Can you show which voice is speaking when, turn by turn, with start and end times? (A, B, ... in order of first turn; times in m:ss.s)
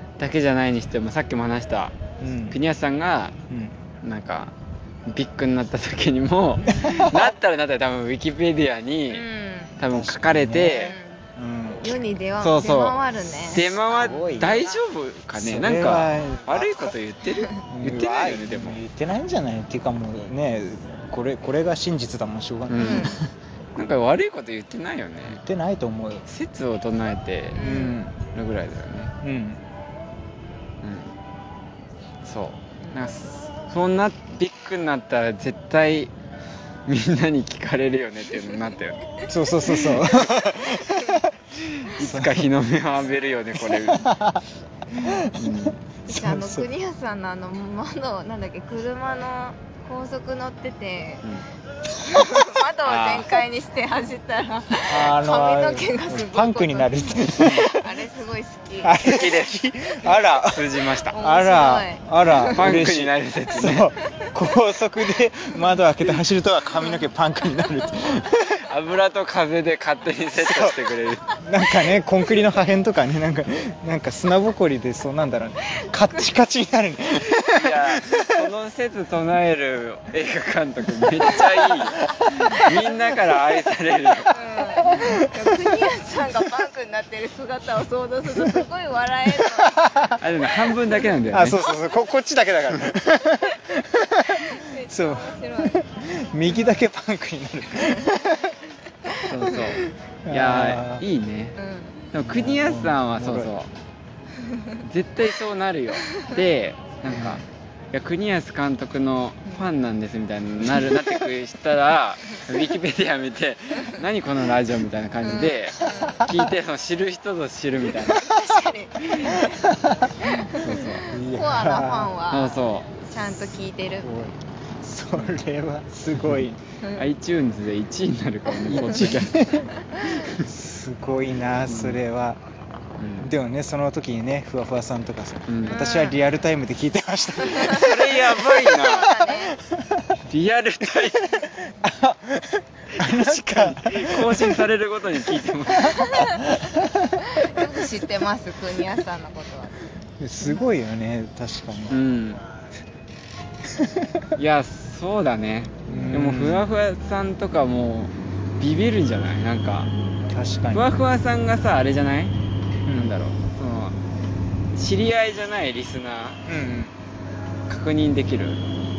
0:00.2-0:01.9 A
0:02.2-0:02.6 B
0:02.5-0:03.4 A
0:03.5-0:03.8 B
0:04.0-0:04.5 A
0:05.1-0:09.2 A
0:06.6-0:06.9 C
0:06.8-0:07.3 B
0:09.1-0:09.8 C
0:09.8-0:10.9 A
0:09.9-0:12.1 B
0:10.6-0:11.1 C
0:11.8-0:13.6 C
0:12.4-0:18.8 A
0:13.6-0:14.6 B
0:15.3-0:16.9 B
0:17.7-0:23.3 B
0:22.7-0:23.2 A
0:22.8-0:23.1 C
0:23.8-0:25.4 A
0:25.2-0:26.2 B
0:26.3-0:29.1 A
0:27.6-0:28.0 C
0:27.6-0:28.1 B
0:29.2-0:29.6 B
0:30.8-0:31.1 A
0:32.2-0:36.1 A
0:36.9-0:39.0 A
0:39.3-0:42.5 B
0:39.6-0:40.4 A
0:41.7-0:44.2 A
0:43.5-0:44.4 B
0:45.0-0:46.6 B
0:45.0-0:45.2 C
0:45.3-0:45.8 A
0:46.1-0:51.2 C
0:51.9-0:59.0 C
0:52.8-0:53.3 A
0:54.9-0:58.0 B
0:57.4-0:57.7 A
0:58.8-1:08.6 B
0:59.0-1:01.2 A
1:01.1-1:02.6 C
1:02.4-1:03.9 A
1:08.6-1:11.3 A
1:10.4-1:10.8 B
1:11.4-1:18.4 B
1:17.5-1:24.4 A
1:22.4-1:22.7 C
1:24.3-1:29.8 C
1:24.9-1:25.6 B
1:28.3-1:28.6 B
1:29.4-1:30.2 B
1:30.2-1:31.6 A
1:31.3-1:38.6 B
1:34.4-1:35.8 C
1:39.2-1:41.6 A
1:40.2-1:41.0 B
1:41.6-1:42.0 C
1:42.1-1:43.7 A
1:42.2-1:43.5 B
1:44.8-1:58.2 A
1:47.1-1:47.4 B
1:50.6-1:51.0 B
1:55.2-1:56.3 C
1:56.0-1:56.5 B
1:58.1-2:04.1 C
1:58.1-2:00.4 B
2:00.5-2:01.1 A
2:01.1-2:02.2 B
2:02.3-2:02.9 A
2:04.0-2:06.6 B
2:06.1-2:06.4 A
2:06.9-2:10.5 A
2:08.6-2:12.4 B
2:09.9-2:10.2 C
2:11.7-2:12.0 A
2:13.0-2:13.3 A
2:13.2-2:18.4 B
2:15.5-2:15.8 A
2:15.6-2:16.2 C
2:17.4-2:19.3 A
2:17.5-2:17.8 C
2:18.6-2:19.5 C
2:19.3-2:20.2 B
2:20.3-2:21.5 A
2:21.2-2:24.6 B
2:22.9-2:26.3 A
2:25.7-2:27.6 B
2:26.0-2:26.5 C
2:27.2-2:29.8 C
2:30.2-2:32.0 B
2:31.9-2:32.4 A
2:33.6-2:34.3 B
2:34.4-2:39.9 A
2:35.9-2:36.6 B
2:40.3-2:40.9 B
2:40.7-2:42.3 A
2:42.9-2:43.1 B
2:42.9-2:44.0 A
2:44.7-2:46.4 A
2:46.5-2:46.9 B
2:47.7-2:48.6 A